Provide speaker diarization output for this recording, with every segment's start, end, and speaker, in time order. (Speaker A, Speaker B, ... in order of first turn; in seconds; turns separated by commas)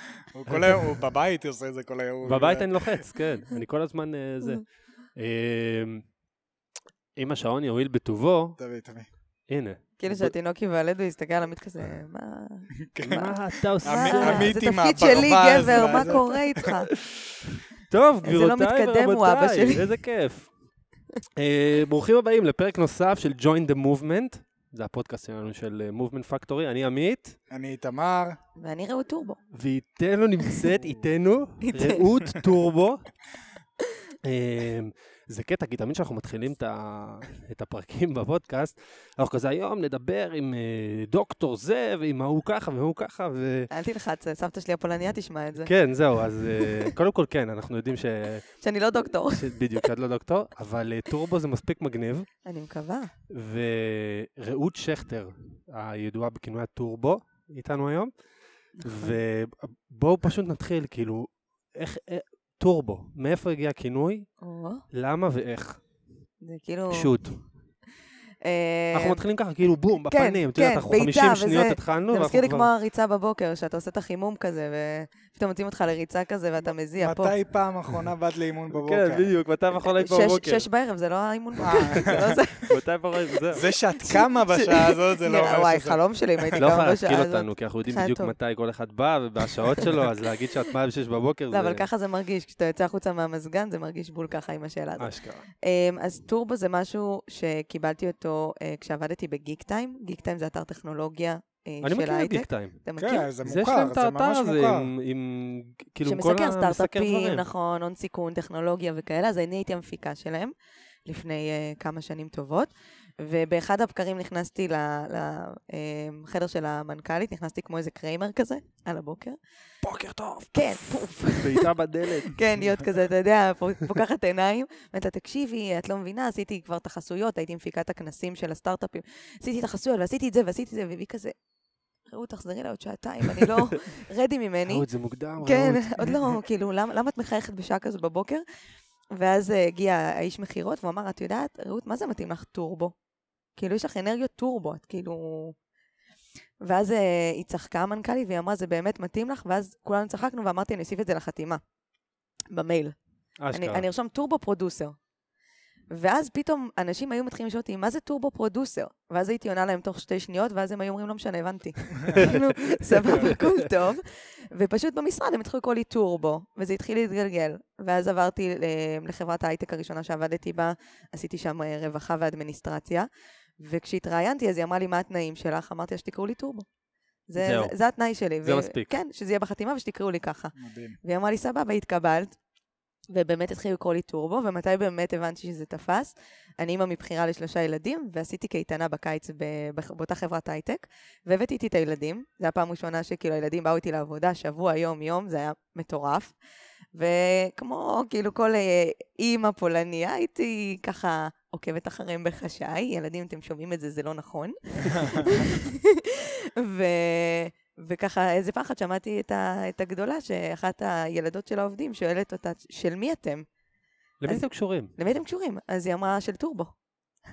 Speaker A: 0.3-3.1, Speaker B: 0.5-0.8, Speaker B: 2.2-4.6, Speaker B: 5.1-6.0, Speaker B: 7.2-8.6, Speaker A: 8.6-9.1, Speaker B: 9.5-10.3, Speaker C: 10.0-12.7, Speaker A: 12.8-16.9, Speaker B: 13.0-14.5, Speaker C: 13.8-16.9, Speaker B: 17.8-20.5, Speaker C: 18.2-19.9, Speaker B: 21.4-27.4, Speaker A: 27.5-28.4, Speaker C: 28.6-29.4, Speaker B: 29.5-33.1, Speaker C: 31.6-32.4, Speaker B: 34.2-43.7, Speaker C: 43.7-45.7, Speaker B: 45.6-48.5, Speaker C: 46.6-46.9, Speaker C: 48.6-49.5, Speaker B: 49.2-52.3, Speaker C: 52.4-53.1, Speaker B: 53.3-58.1, Speaker C: 58.8-59.2, Speaker B: 58.8-64.3, Speaker C: 64.4-64.8, Speaker B: 64.9-65.8, Speaker C: 66.4-67.2, Speaker B: 66.9-67.4, Speaker C: 68.4-69.2, Speaker B: 68.9-72.7, Speaker C: 70.0-77.3, Speaker A: 77.0-79.3, Speaker B: 78.7-80.7, Speaker C: 79.7-82.7, Speaker A: 81.6-82.4, Speaker B: 81.7-83.6, Speaker A: 83.5-86.7, Speaker C: 84.0-88.3, Speaker B: 86.6-91.9, Speaker C: 91.5-103.3, Speaker B: 95.0-95.5, Speaker B: 101.8-102.8, Speaker A: 103.0-104.9, Speaker B: 103.4-107.5, Speaker C: 106.0-110.5, Speaker C: 111.0-119.4, Speaker B: 119.8-122.4, Speaker C: 120.5-121.7, Speaker C: 122.2-131.3, Speaker C: 132.1-134.8, Speaker B: 133.3-133.7, Speaker B: 134.7-136.3, Speaker C: 135.4-138.4, Speaker C: 139.1-142.9, Speaker C: 143.6-145.6, Speaker C: 146.6-151.6, Speaker C: 152.5-152.9, Speaker B: 153.4-153.8, Speaker C: 153.5-155.0, Speaker C: 155.9-173.1, Speaker B: 162.1-163.5, Speaker C: 173.6-176.7, Speaker C: 177.3-182.3, Speaker B: 177.4-177.7, Speaker B: 178.4-178.9, Speaker A: 180.6-181.0, Speaker C: 183.1-196.3, Speaker C: 196.9-213.4, Speaker B: 214.2-214.9, Speaker C: 214.3-216.7